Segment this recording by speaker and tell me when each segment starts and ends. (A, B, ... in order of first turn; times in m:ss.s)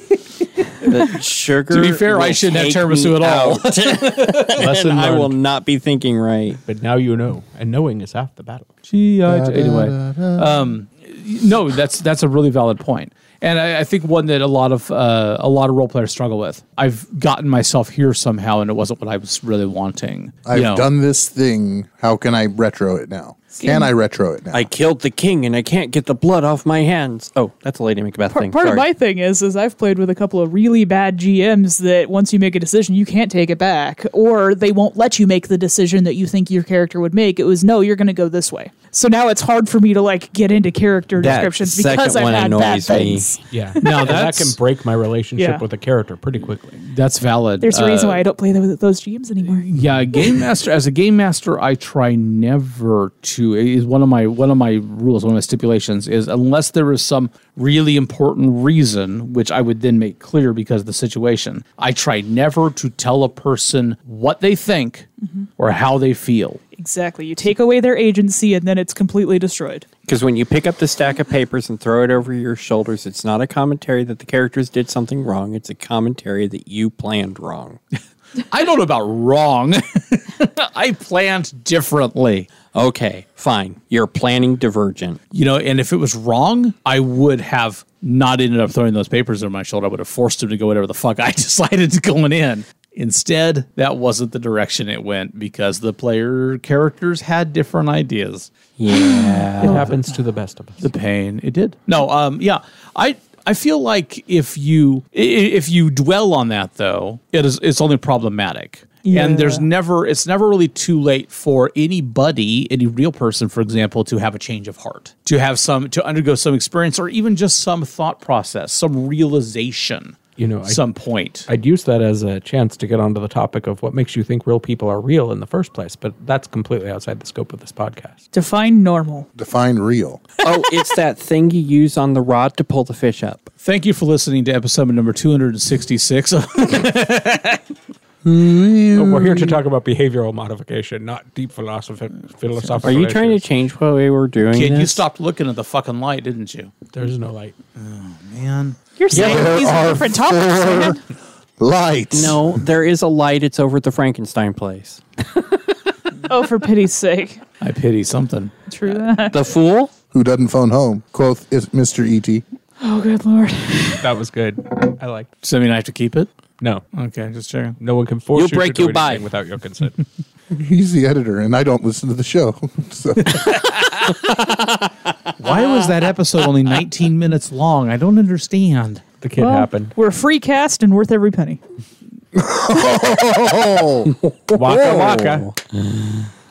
0:00.8-0:06.6 A
0:01.7-0:05.3 B
0:04.5-0:05.3 C
0:06.6-0:08.7 C
0:08.9-0:20.9 B
0:09.3-0:10.6 D
0:20.4-0:24.7 D
0:23.6-0:23.9 E
0:24.5-0:28.9 A
0:28.3-0:44.1 E
0:41.2-0:43.3 A
0:43.5-0:46.8 C
0:43.8-0:44.6 B
0:45.4-0:45.6 E
0:46.8-0:48.2 B
0:47.6-0:49.6 E
0:49.5-1:05.1 B
1:05.6-1:06.6 B
1:06.8-1:09.9 E
1:10.1-1:17.8 A
1:18.5-1:22.5 B
1:22.7-1:25.2 A
1:25.3-1:39.1 B
1:38.8-1:39.9 A
1:39.6-1:40.8 C
1:39.6-1:40.1 B
1:40.8-2:01.5 B
1:49.0-1:49.6 E
2:00.4-2:00.8 C
2:01.5-2:08.2 C
2:08.3-2:09.3 E
2:09.4-2:10.2 D
2:10.4-2:13.5 A
2:13.6-2:17.6 B
2:18.2-2:19.6 D
2:18.9-2:23.4 C
2:22.8-2:25.0 A
2:24.5-2:26.7 B
2:26.9-2:27.5 C
2:27.8-2:28.8 B
2:29.0-2:31.0 E
2:29.1-2:31.0 D
2:29.1-2:29.4 A
2:31.6-2:32.6 D
2:32.1-2:35.0 A
2:36.2-2:37.4 E
2:37.6-2:38.5 B
2:38.7-2:39.4 E
2:39.3-2:39.9 A
2:40.1-2:42.4 D
2:42.8-2:44.1 E
2:44.0-2:45.3 C
2:45.4-2:46.3 B
2:46.9-2:47.8 B
2:47.8-2:50.0 C
2:48.3-2:49.3 A
2:50.5-2:53.6 D
2:53.5-2:54.0 B
2:54.2-2:54.9 A
2:55.4-2:59.0 B
2:59.2-2:59.9 C
2:59.4-3:01.6 E
3:02.3-3:04.1 D
3:04.0-3:06.3 A
3:04.5-3:05.5 C